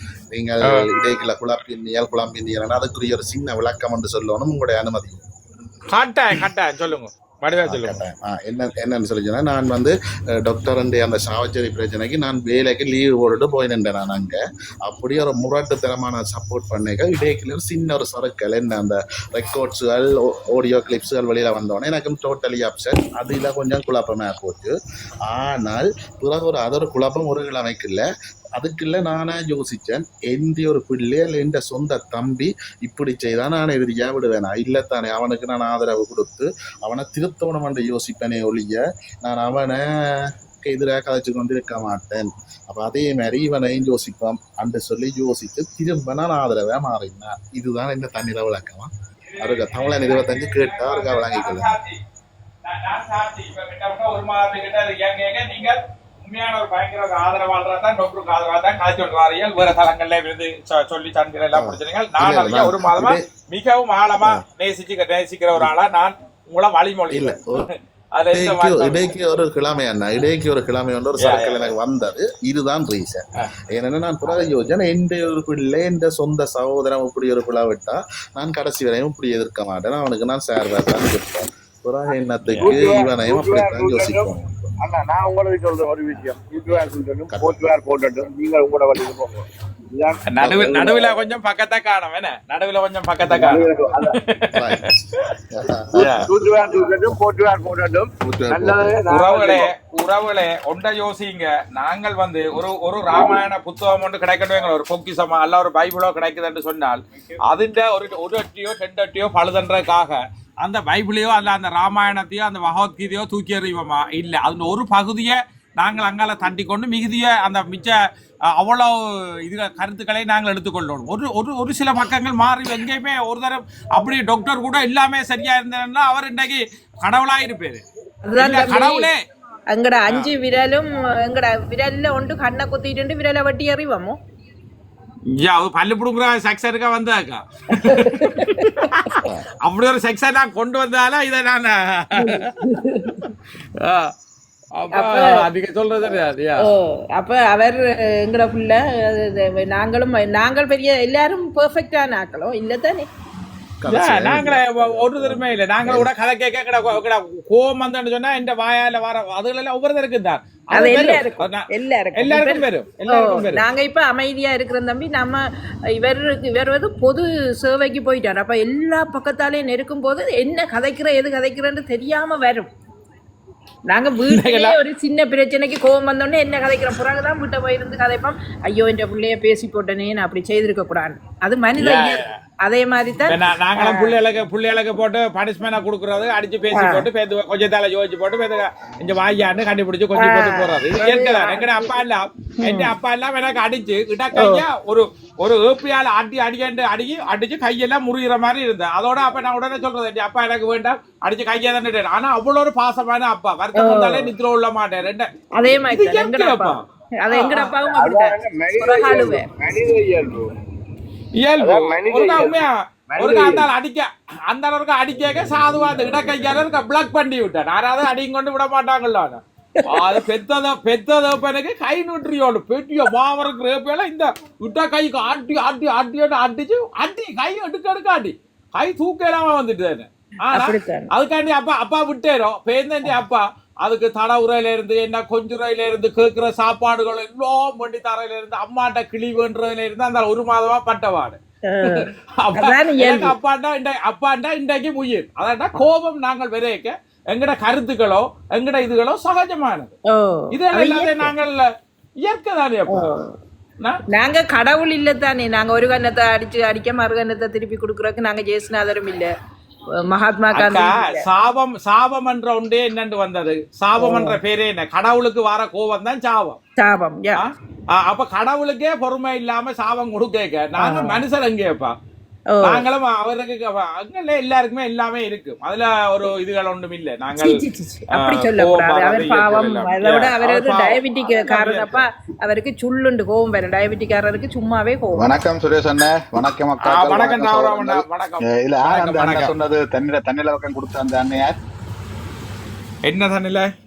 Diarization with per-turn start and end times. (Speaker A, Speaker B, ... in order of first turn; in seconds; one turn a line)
Speaker A: 0.3-5.2
Speaker B: 5.9-8.0
Speaker A: 7.7-24.7
Speaker A: 25.3-51.7
Speaker B: 49.3-52.0
Speaker B: 52.6-69.1
Speaker A: 61.5-63.2
Speaker A: 67.1-67.7
Speaker A: 68.3-84.7
Speaker B: 71.2-71.7
Speaker B: 82.5-82.9
Speaker C: 82.6-91.1
Speaker A: 87.3-87.7
Speaker B: 90.3-95.2
Speaker C: 93.2-94.2
Speaker A: 94.5-96.0
Speaker C: 95.9-99.7
Speaker B: 96.0-96.2
Speaker A: 98.2-99.0
Speaker B: 99.1-118.0
Speaker B: 118.5-127.8
Speaker D: 128.2-129.1
Speaker B: 128.4-129.2
Speaker D: 129.7-134.2
Speaker B: 130.1-130.3
Speaker B: 135.3-143.2
Speaker D: 137.8-138.6
Speaker D: 142.2-143.3
Speaker B: 143.8-144.1
Speaker B: 144.8-146.7
Speaker D: 144.9-145.4
Speaker D: 146.6-153.1
Speaker A: 153.8-156.1
Speaker B: 153.9-163.6
Speaker D: 160.7-165.4
Speaker D: 166.0-172.7
Speaker D: 173.9-184.2
Speaker B: 174.2-174.8
Speaker B: 181.8-182.3
Speaker B: 183.3-207.7
Speaker D: 186.7-187.1
Speaker D: 190.2-191.9
Speaker D: 192.6-192.9
Speaker D: 194.3-194.6
Speaker D: 203.7-204.3
Speaker D: 205.6-209.5
Speaker C: 207.9-210.5
Speaker B: 211.4-241.4
Speaker C: 211.6-213.7
Speaker D: 219.8-220.2
Speaker D: 230.5-231.1
Speaker D: 241.7-243.3
Speaker B: 241.9-249.9
Speaker D: 250.1-251.3
Speaker B: 250.5-251.7
Speaker B: 252.2-253.2
Speaker D: 252.9-253.3
Speaker D: 254.1-259.3
Speaker D: 260.0-261.2
Speaker B: 260.5-266.6
Speaker D: 264.0-264.4
Speaker D: 266.8-267.4
Speaker B: 267.4-271.9
Speaker D: 270.8-271.2
Speaker D: 272.5-272.8
Speaker B: 272.6-277.6
Speaker D: 277.4-285.4
Speaker B: 278.1-282.0
Speaker E: 285.2-291.6
Speaker B: 286.8-289.5
Speaker B: 293.0-293.7